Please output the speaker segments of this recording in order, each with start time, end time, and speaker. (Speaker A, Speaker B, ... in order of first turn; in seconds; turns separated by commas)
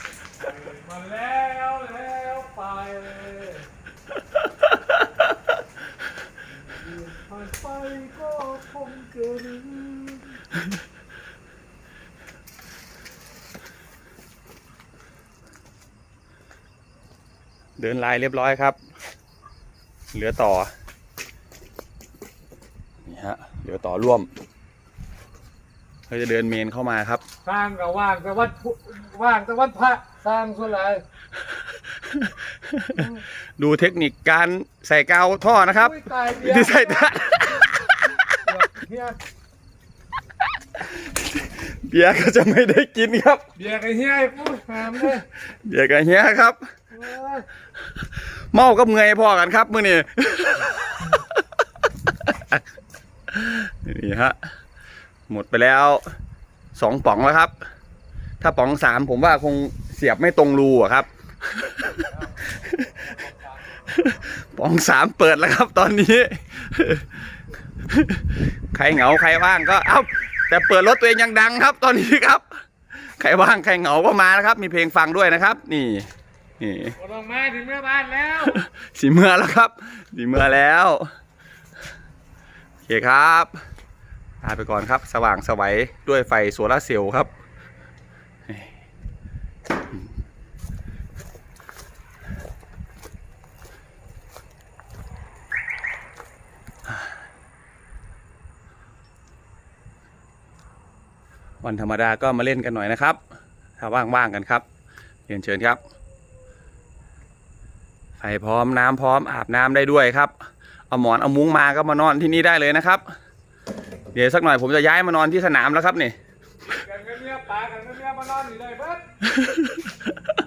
Speaker A: 0.5-3.7, Speaker A: 6.7-10.4, Speaker B: 17.8-18.8, Speaker B: 20.1-20.7, Speaker B: 23.1-24.3, Speaker B: 26.1-27.2, Speaker A: 27.4-31.0, Speaker B: 32.0-37.7, Speaker A: 35.8-37.0, Speaker A: 38.5-39.2, Speaker B: 40.9-43.4, Speaker A: 43.6-45.3, Speaker B: 45.4-46.6, Speaker A: 46.9-47.5, Speaker B: 48.2-51.2, Speaker B: 52.3-52.6, Speaker B: 53.3-54.4, Speaker B: 55.3-56.0, Speaker B: 56.8-57.5, Speaker B: 58.4-63.0, Speaker B: 63.9-67.1, Speaker B: 67.9-76.1, Speaker B: 76.6-77.0, Speaker A: 77.0-78.6, Speaker B: 78.4-81.1, Speaker B: 82.9-83.5, Speaker B: 84.4-87.3, Speaker B: 101.6-103.2, Speaker B: 103.8-104.6, Speaker B: 105.3-105.8, Speaker B: 108.2-110.3, Speaker B: 110.9-113.0, Speaker B: 114.1-116.2, Speaker A: 116.7-119.1, Speaker B: 119.4-119.7